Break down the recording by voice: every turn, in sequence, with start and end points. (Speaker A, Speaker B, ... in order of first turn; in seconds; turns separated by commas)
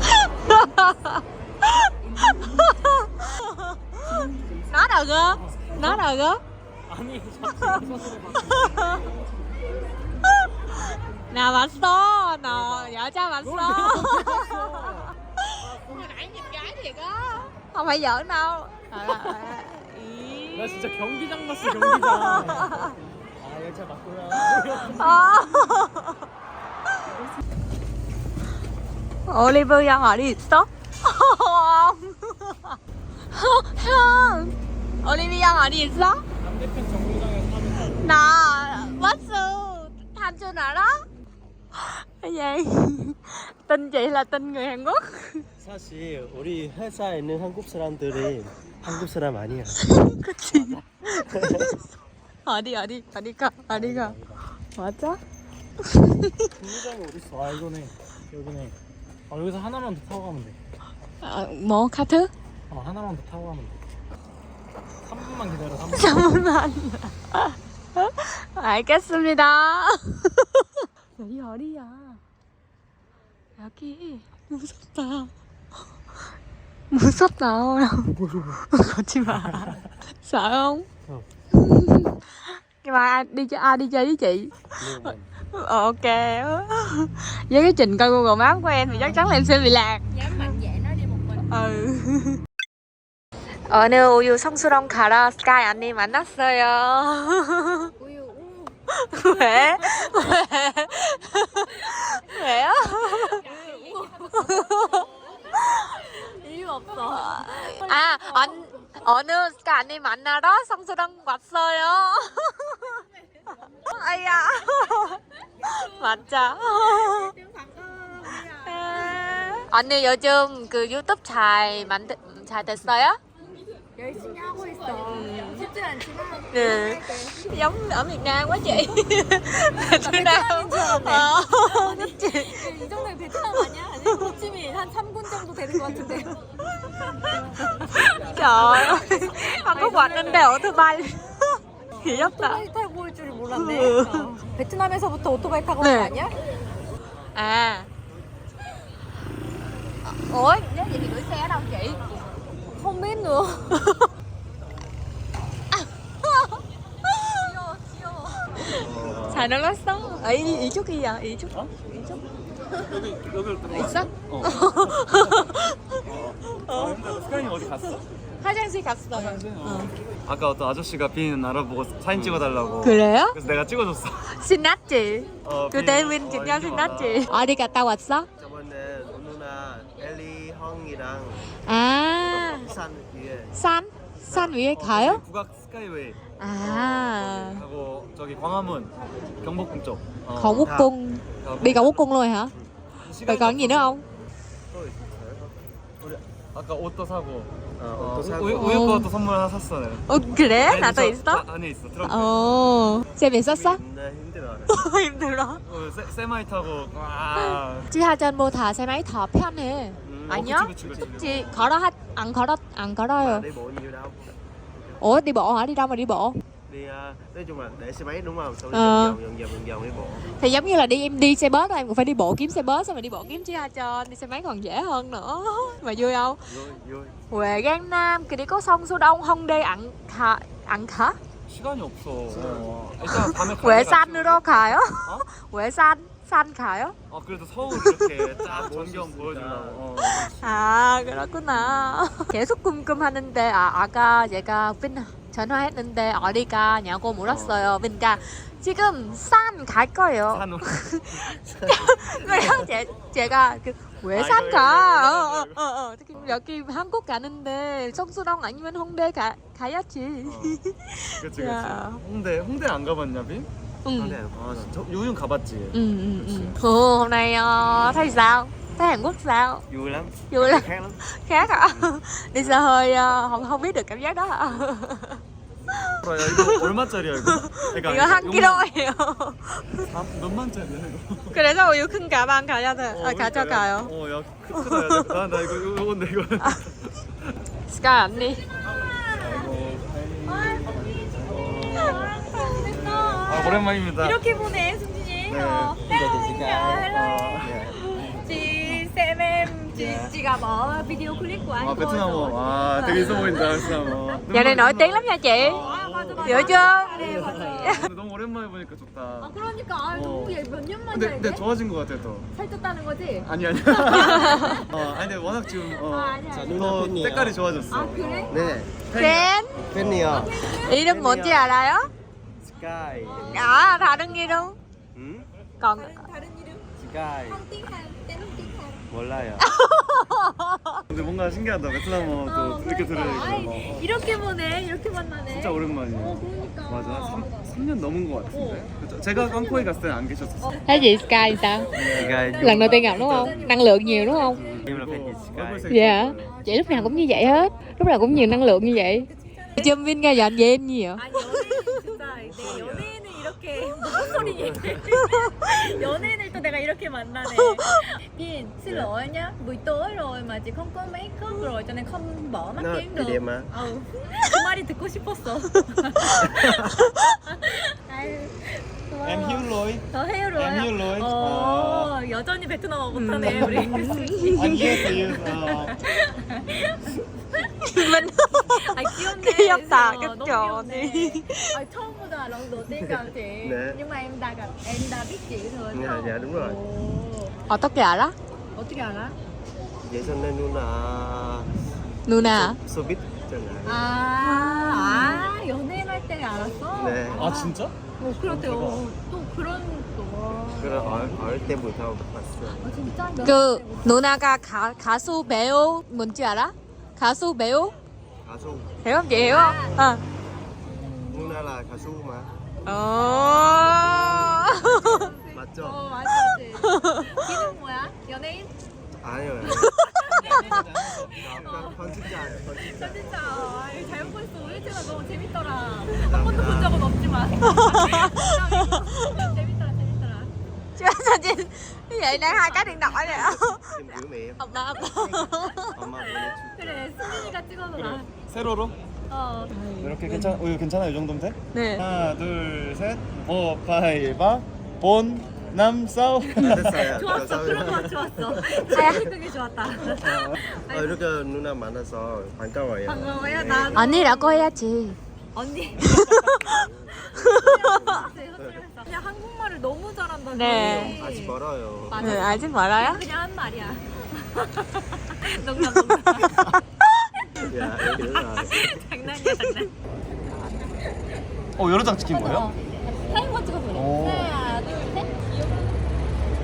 Speaker A: 0.4-6.4, Speaker B: 5.3-6.0, Speaker B: 6.9-8.9, Speaker A: 7.5-9.1, Speaker A: 10.3-20.9, Speaker B: 12.5-15.1, Speaker B: 20.5-22.9, Speaker A: 21.4-22.9, Speaker B: 23.4-25.1, Speaker C: 23.8-24.2, Speaker A: 24.6-26.2, Speaker A: 29.3-32.8, Speaker A: 33.3-36.2, Speaker B: 36.4-38.0, Speaker A: 37.8-41.0, Speaker A: 41.7-45.5, Speaker C: 45.6-49.8, Speaker A: 49.8-51.7, Speaker C: 50.5-51.7, Speaker A: 52.5-55.2, Speaker B: 53.7-54.4, Speaker A: 55.9-56.5, Speaker B: 56.6-58.8, Speaker B: 59.3-60.6, Speaker A: 61.2-62.3, Speaker B: 62.7-63.8, Speaker B: 65.0-66.3, Speaker A: 65.9-70.6, Speaker A: 71.2-72.2, Speaker A: 73.6-75.3, Speaker A: 76.9-80.9, Speaker A: 81.5-82.2, Speaker A: 82.8-90.4, Speaker C: 84.8-85.2, Speaker D: 88.8-89.2, Speaker D: 90.1-91.9, Speaker A: 91.5-92.4, Speaker A: 93.7-97.9, Speaker D: 98.0-100.4, Speaker A: 98.9-103.5, Speaker D: 101.5-102.7, Speaker D: 103.2-104.6, Speaker A: 104.2-105.0, Speaker A: 105.6-105.8, Speaker D: 105.8-108.7, Speaker A: 107.1-113.0, Speaker A: 113.8-117.3, Speaker D: 115.8-116.2, Speaker D: 116.7-119.4, Speaker A: 118.6-123.2, Speaker D: 124.0-127.4, Speaker A: 124.9-125.6, Speaker A: 126.5-132.7, Speaker D: 129.7-136.3, Speaker A: 134.1-134.3, Speaker A: 135.9-136.3, Speaker D: 137.3-140.6, Speaker A: 137.3-142.6, Speaker D: 142.0-146.3, Speaker A: 143.5-144.3, Speaker A: 145.8-146.1, Speaker A: 147.3-147.9, Speaker A: 150.0-152.0, Speaker D: 152.7-153.9, Speaker A: 153.7-154.0, Speaker D: 157.4-158.8, Speaker A: 158.5-162.2, Speaker C: 158.7-159.4, Speaker E: 158.9-159.4, Speaker E: 160.4-160.7, Speaker E: 162.8-165.2, Speaker A: 163.7-166.0, Speaker E: 166.0-168.1, Speaker A: 166.5-167.1, Speaker A: 168.4-169.9, Speaker E: 169.1-174.3, Speaker C: 172.1-172.5, Speaker A: 172.8-173.3, Speaker A: 174.3-178.3, Speaker E: 175.4-177.7, Speaker C: 178.4-181.5, Speaker A: 181.7-182.5, Speaker C: 182.2-183.6, Speaker A: 183.5-185.2, Speaker C: 184.3-184.6, Speaker E: 184.5-190.8, Speaker A: 186.4-187.6, Speaker A: 190.3-192.5, Speaker C: 190.6-190.9, Speaker E: 191.4-192.1, Speaker E: 193.0-194.0, Speaker A: 193.2-194.0, Speaker C: 194.7-195.6, Speaker E: 196.0-202.5, Speaker C: 197.8-198.7, Speaker A: 198.5-199.1, Speaker A: 200.1-201.4, Speaker A: 202.0-203.8, Speaker C: 203.4-204.8, Speaker A: 204.7-205.6, Speaker E: 205.6-207.9, Speaker A: 207.4-213.4, Speaker C: 210.0-210.5, Speaker E: 210.3-211.7, Speaker C: 213.1-214.4, Speaker A: 215.0-216.4, Speaker C: 216.7-220.3, Speaker A: 218.7-219.2, Speaker A: 220.4-226.4, Speaker C: 226.5-227.2, Speaker A: 227.3-231.2, Speaker E: 231.5-235.3, Speaker C: 232.3-232.7, Speaker A: 233.1-236.9, Speaker E: 237.1-240.8, Speaker A: 237.7-238.0, Speaker C: 238.4-240.3, Speaker A: 240.0-262.0, Speaker E: 241.5-241.8, Speaker E: 247.2-247.8, Speaker E: 250.3-251.3, Speaker C: 251.8-252.7, Speaker E: 251.9-252.6, Speaker E: 254.0-255.6, Speaker E: 256.1-256.4, Speaker E: 260.2-260.6, Speaker E: 261.2-263.5, Speaker A: 263.8-264.2, Speaker C: 263.9-264.7, Speaker E: 264.1-266.6, Speaker A: 265.7-269.6, Speaker C: 269.7-272.6, Speaker A: 270.3-275.2, Speaker A: 275.7-276.6, Speaker E: 276.0-278.7, Speaker A: 277.2-279.8, Speaker E: 279.8-281.4, Speaker A: 281.3-283.9, Speaker E: 282.9-287.1, Speaker A: 284.5-285.2, Speaker A: 287.7-288.4, Speaker D: 288.6-289.5, Speaker E: 289.2-294.3, Speaker D: 290.2-290.9, Speaker C: 290.8-291.6, Speaker D: 291.7-304.2, Speaker E: 295.3-295.8, Speaker C: 295.9-296.9, Speaker E: 296.9-297.6, Speaker C: 297.4-297.8, Speaker C: 299.7-300.1, Speaker E: 301.6-309.4, Speaker A: 302.9-303.2, Speaker A: 304.3-305.6, Speaker D: 305.4-307.9, Speaker A: 306.2-307.9, Speaker C: 307.0-307.5, Speaker D: 309.2-311.4, Speaker E: 309.9-312.3, Speaker D: 312.3-316.7, Speaker E: 313.2-320.2, Speaker A: 313.9-314.6, Speaker C: 316.3-317.4, Speaker D: 317.7-318.6, Speaker C: 318.2-318.8, Speaker A: 318.9-319.6, Speaker C: 319.7-321.5, Speaker D: 320.0-320.9, Speaker A: 320.4-321.9, Speaker C: 322.4-323.6, Speaker D: 323.0-324.3, Speaker A: 323.2-324.6, Speaker C: 324.9-325.3, Speaker A: 325.6-326.1, Speaker D: 325.8-328.9, Speaker C: 326.8-327.4, Speaker C: 328.9-329.5, Speaker A: 329.4-330.6, Speaker E: 330.9-333.8, Speaker D: 332.2-337.3, Speaker E: 335.3-340.6, Speaker D: 338.3-339.8, Speaker D: 340.4-345.3, Speaker A: 340.6-341.7, Speaker E: 341.7-343.6, Speaker C: 341.8-343.2, Speaker A: 342.4-344.4, Speaker E: 344.3-346.4, Speaker C: 344.5-345.7, Speaker A: 345.7-351.7, Speaker D: 346.1-350.1, Speaker D: 350.9-387.4, Speaker C: 352.0-353.0, Speaker C: 353.9-354.9, Speaker A: 355.0-355.3, Speaker A: 357.2-357.8, Speaker C: 362.6-363.5, Speaker C: 366.2-366.7, Speaker E: 369.0-371.9, Speaker A: 372.9-374.9, Speaker E: 374.3-375.9, Speaker A: 377.4-381.6, Speaker C: 383.4-383.8, Speaker C: 385.7-386.6, Speaker A: 387.5-388.1, Speaker D: 388.6-389.1, Speaker C: 389.8-391.5, Speaker A: 392.1-392.6, Speaker C: 392.2-393.9, Speaker D: 393.6-400.9, Speaker A: 394.2-395.2, Speaker C: 396.7-397.3, Speaker E: 397.1-398.9, Speaker C: 400.6-402.7, Speaker E: 400.8-401.2, Speaker D: 402.6-404.1, Speaker A: 403.2-407.8, Speaker C: 408.2-409.3, Speaker A: 408.8-410.0, Speaker D: 409.1-409.9, Speaker D: 410.6-411.5, Speaker C: 411.1-412.3, Speaker A: 412.6-415.0, Speaker D: 412.9-418.5, Speaker C: 415.3-415.8, Speaker A: 416.1-417.2, Speaker C: 419.0-419.7, Speaker D: 419.4-430.3, Speaker A: 419.6-420.1, Speaker E: 420.1-421.9, Speaker C: 421.1-424.1, Speaker C: 426.0-426.8, Speaker A: 427.4-429.2, Speaker A: 430.8-435.8, Speaker D: 432.0-433.4, Speaker C: 433.1-436.9, Speaker D: 436.1-438.1, Speaker E: 437.7-438.8, Speaker D: 439.1-439.6, Speaker A: 439.5-440.4, Speaker E: 439.8-447.0, Speaker A: 441.5-441.9, Speaker C: 446.4-449.0, Speaker D: 446.7-451.0, Speaker A: 448.7-449.1, Speaker E: 450.0-450.4, Speaker C: 450.7-454.0, Speaker D: 452.9-454.5, Speaker A: 453.7-455.0, Speaker D: 455.3-456.0, Speaker A: 455.8-456.3, Speaker C: 455.9-458.6, Speaker A: 457.1-457.9, Speaker D: 457.2-461.4, Speaker A: 460.3-460.9, Speaker C: 460.4-462.4, Speaker D: 461.9-466.5, Speaker A: 462.0-463.0, Speaker A: 466.3-466.6, Speaker D: 467.3-469.7, Speaker C: 467.5-468.8, Speaker A: 469.1-469.6, Speaker E: 471.6-472.5, Speaker D: 472.1-475.4, Speaker E: 473.7-474.4